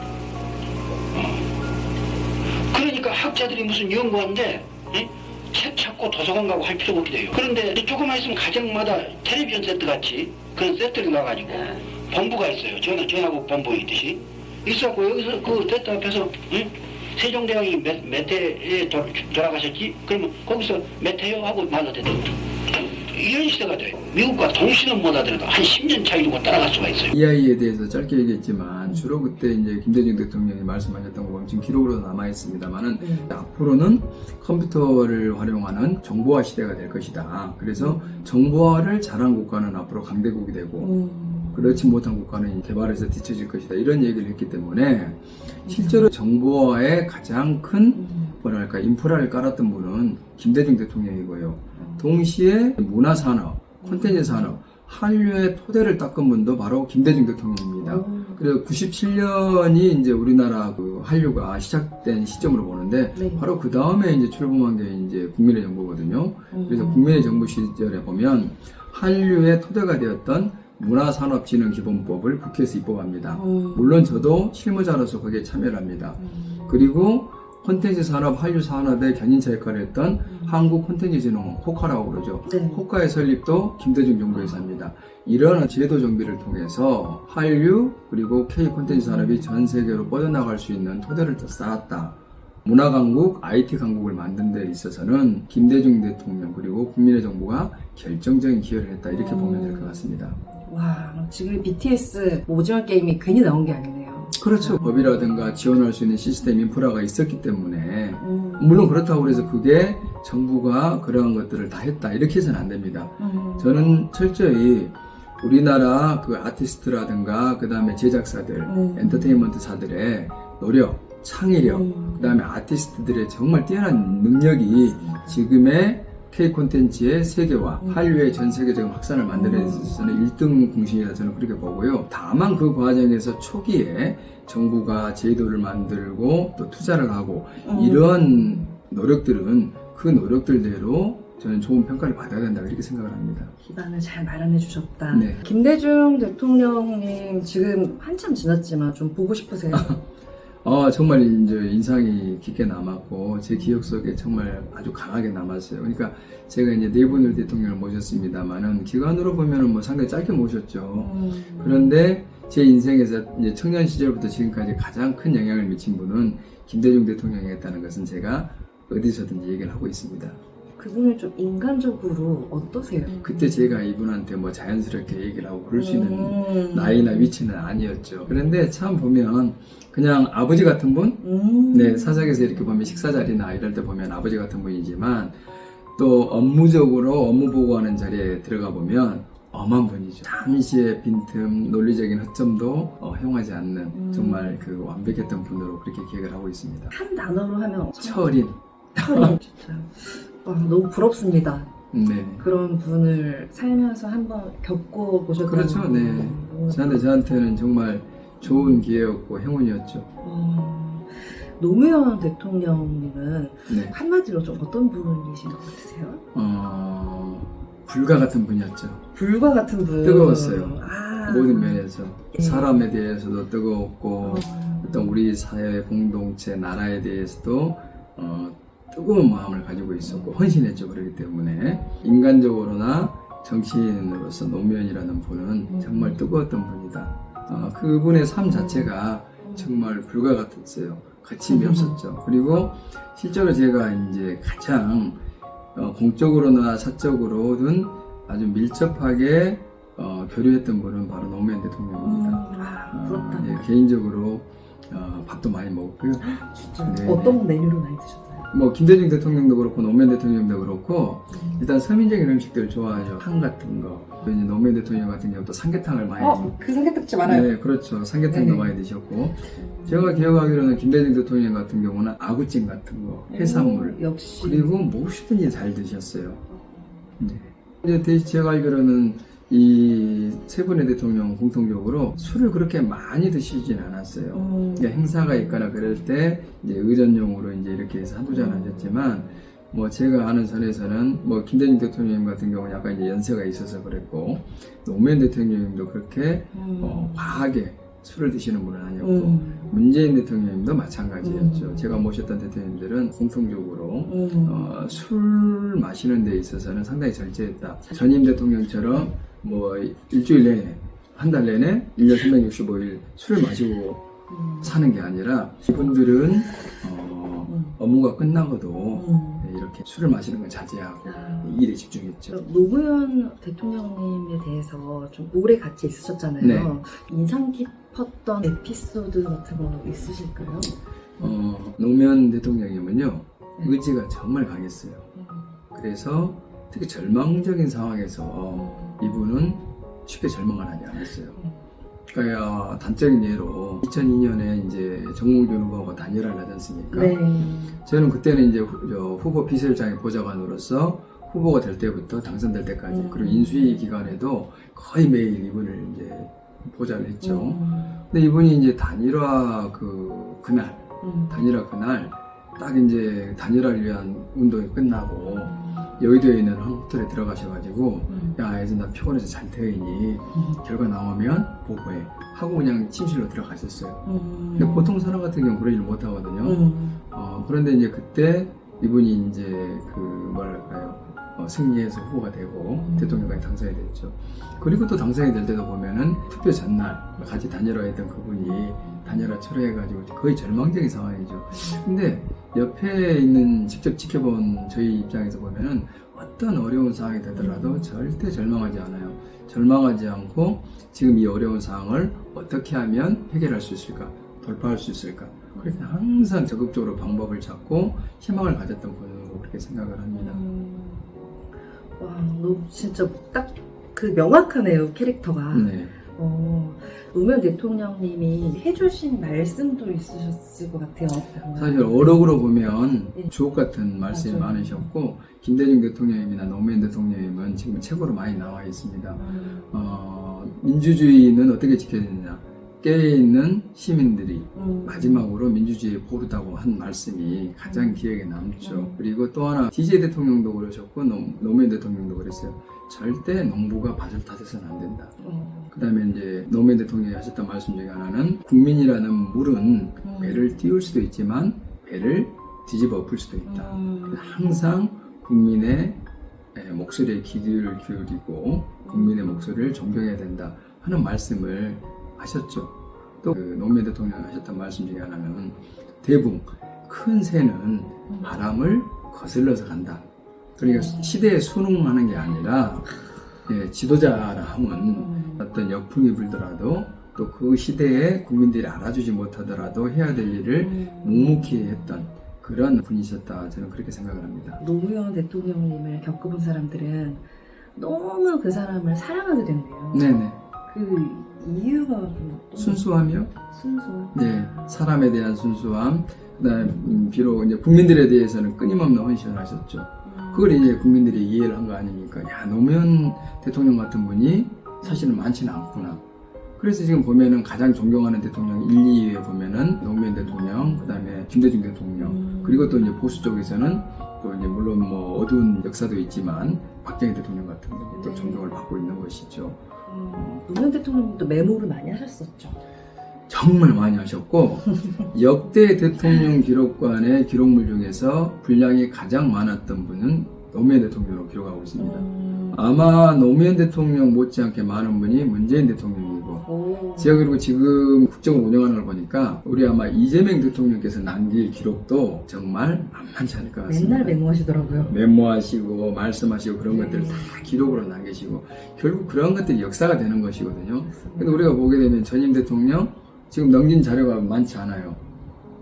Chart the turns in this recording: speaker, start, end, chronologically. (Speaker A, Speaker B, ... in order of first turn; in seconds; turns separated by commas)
Speaker A: 1.1-1.6, Speaker A: 2.6-27.1, Speaker B: 27.1-40.9, Speaker C: 33.0-33.3, Speaker C: 37.8-38.2, Speaker C: 40.8-41.9, Speaker B: 41.5-100.4, Speaker C: 45.7-46.1, Speaker C: 48.0-48.4, Speaker C: 51.8-52.1, Speaker C: 53.8-54.5, Speaker C: 57.8-58.4, Speaker C: 63.2-63.4, Speaker C: 66.5-67.5, Speaker C: 73.3-74.0, Speaker C: 76.2-76.8, Speaker C: 80.3-80.5, Speaker C: 82.5-82.8, Speaker C: 88.9-89.7, Speaker C: 99.1-105.4, Speaker B: 104.4-143.5, Speaker C: 108.2-109.6, Speaker C: 113.2-113.9, Speaker C: 118.7-119.5, Speaker C: 121.6-122.4, Speaker C: 124.9-125.4, Speaker C: 129.3-130.1, Speaker C: 137.6-138.6, Speaker C: 143.6-150.0, Speaker B: 145.1-145.4, Speaker B: 150.6-170.4, Speaker C: 161.0-162.0, Speaker C: 170.8-173.8, Speaker B: 173.2-185.4, Speaker C: 175.8-177.3, Speaker C: 181.2-183.2, Speaker B: 186.0-196.9, Speaker C: 193.9-194.7, Speaker C: 196.9-198.3, Speaker B: 198.0-199.3, Speaker C: 199.0-201.7, Speaker B: 201.9-202.5, Speaker C: 202.4-207.1, Speaker B: 205.4-210.1, Speaker C: 210.2-216.2, Speaker B: 213.7-213.9, Speaker B: 216.3-219.0, Speaker C: 219.2-221.8, Speaker B: 220.0-245.2, Speaker C: 222.3-222.7, Speaker C: 224.2-225.2, Speaker C: 230.1-230.3, Speaker C: 235.7-236.2, Speaker C: 238.5-238.9, Speaker C: 241.5-241.9, Speaker B: 245.8-257.4, Speaker C: 252.0-253.6, Speaker C: 256.2-258.5, Speaker B: 258.5-266.5, Speaker C: 261.3-261.6, Speaker C: 266.2-267.5, Speaker B: 267.2-276.4, Speaker C: 268.3-268.7, Speaker C: 269.6-270.6, Speaker C: 273.3-274.8, Speaker C: 276.5-277.2, Speaker B: 277.2-314.1, Speaker C: 284.3-285.8, Speaker C: 288.3-289.1, Speaker C: 296.5-297.4, Speaker C: 299.0-299.7, Speaker C: 301.2-301.9, Speaker C: 304.1-304.7, Speaker C: 314.3-314.7, Speaker B: 314.6-322.4, Speaker C: 317.5-317.8, Speaker C: 318.9-319.5, Speaker C: 321.1-321.5, Speaker C: 322.3-330.7, Speaker B: 326.4-326.7, Speaker B: 331.2-335.1, Speaker C: 335.1-335.5, Speaker B: 335.7-341.4, Speaker C: 338.6-339.0, Speaker B: 342.1-347.2, Speaker C: 346.9-347.8, Speaker B: 347.8-374.1, Speaker C: 352.9-353.9, Speaker C: 357.2-358.0, Speaker C: 361.0-361.4, Speaker C: 365.4-365.9, Speaker C: 368.1-368.4, Speaker C: 374.1-375.0, Speaker B: 374.6-410.4, Speaker C: 376.4-377.0, Speaker C: 382.8-383.2, Speaker C: 388.5-389.3, Speaker C: 397.4-397.9, Speaker C: 405.6-406.0, Speaker C: 410.1-411.2, Speaker C: 412.0-422.3, Speaker B: 415.5-415.9, Speaker B: 421.6-445.2, Speaker C: 424.1-424.9, Speaker C: 429.2-429.8, Speaker C: 434.6-435.2, Speaker C: 437.6-438.1, Speaker C: 438.6-439.0, Speaker C: 445.2-445.7, Speaker B: 445.7-456.0, Speaker C: 450.0-450.5, Speaker C: 453.5-454.5, Speaker B: 456.6-470.1, Speaker C: 458.9-459.4, Speaker B: 470.6-472.9, Speaker C: 470.6-471.2, Speaker B: 473.4-484.6, Speaker C: 474.9-475.4, Speaker C: 480.6-482.1, Speaker C: 484.6-487.2, Speaker C: 487.8-490.1, Speaker B: 489.9-490.4, Speaker C: 490.7-494.3, Speaker B: 492.6-493.4, Speaker B: 494.1-506.0, Speaker C: 500.1-500.7, Speaker B: 506.6-519.6, Speaker C: 510.3-510.9, Speaker C: 512.0-513.5, Speaker C: 518.0-518.5, Speaker C: 519.9-522.6, Speaker B: 523.3-544.2, Speaker C: 531.8-532.6, Speaker C: 536.5-537.3, Speaker C: 543.7-544.9, Speaker B: 544.8-555.0, Speaker C: 546.7-547.5, Speaker C: 550.9-551.5